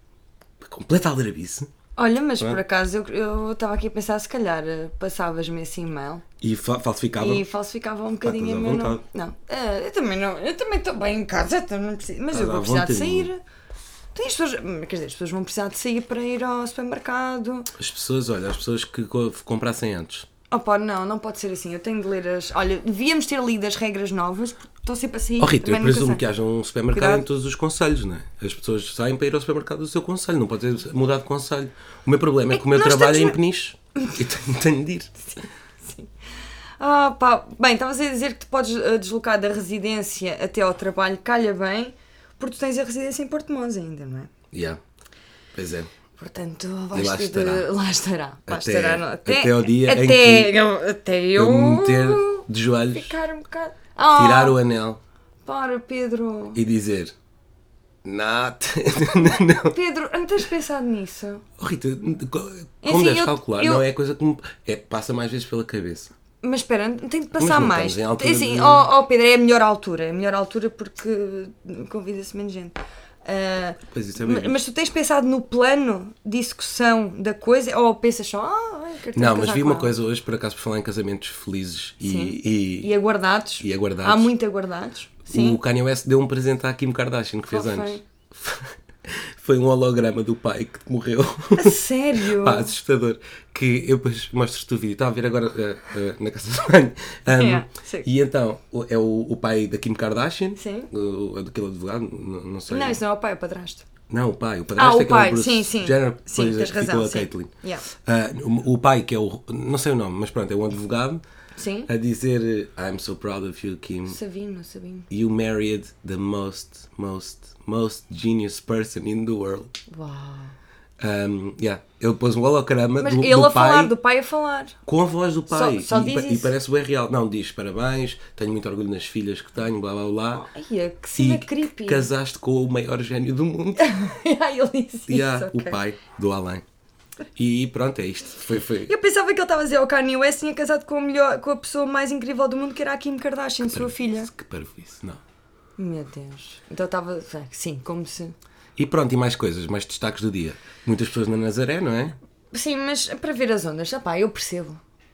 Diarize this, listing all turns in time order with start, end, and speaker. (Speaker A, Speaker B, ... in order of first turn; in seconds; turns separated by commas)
Speaker A: 0.6-1.7, Speaker B: 1.9-6.2, Speaker A: 6.4-7.5, Speaker B: 7.2-13.4, Speaker A: 8.2-9.0, Speaker A: 12.3-13.3, Speaker B: 14.1-17.7, Speaker A: 17.8-20.3, Speaker B: 20.5-26.2, Speaker A: 25.4-35.1, Speaker B: 26.9-27.2, Speaker B: 32.5-33.4, Speaker B: 35.8-36.1, Speaker B: 36.8-44.3, Speaker A: 44.5-44.8, Speaker A: 45.5-45.9, Speaker B: 46.2-54.6, Speaker A: 46.9-47.7, Speaker A: 48.5-50.5, Speaker A: 51.4-53.1, Speaker A: 54.1-55.0, Speaker B: 55.4-56.6, Speaker A: 56.5-57.1, Speaker A: 58.0-59.8, Speaker B: 59.1-61.4, Speaker A: 61.6-66.1, Speaker B: 62.8-63.9, Speaker B: 66.4-80.0, Speaker A: 67.3-68.9, Speaker A: 73.8-74.6, Speaker A: 79.1-82.9, Speaker B: 82.0-85.6, Speaker A: 83.6-84.3, Speaker A: 85.3-103.0, Speaker B: 87.5-88.0, Speaker B: 91.5-92.7, Speaker B: 97.3-98.1, Speaker B: 100.5-100.9, Speaker B: 102.7-103.8, Speaker A: 104.1-107.5, Speaker B: 104.8-107.8, Speaker A: 108.0-111.2, Speaker B: 111.5-111.9, Speaker A: 111.9-114.2, Speaker B: 114.0-115.1, Speaker A: 115.1-119.7, Speaker B: 119.9-120.5, Speaker A: 121.0-123.9, Speaker B: 123.0-124.7, Speaker A: 124.8-130.5, Speaker B: 125.5-126.5, Speaker B: 130.3-132.1, Speaker A: 131.2-133.9, Speaker B: 133.8-135.8, Speaker A: 135.1-136.6, Speaker A: 137.3-138.9, Speaker B: 138.8-144.3, Speaker A: 143.6-145.2, Speaker B: 145.8-148.3, Speaker A: 148.8-152.2, Speaker B: 152.5-154.8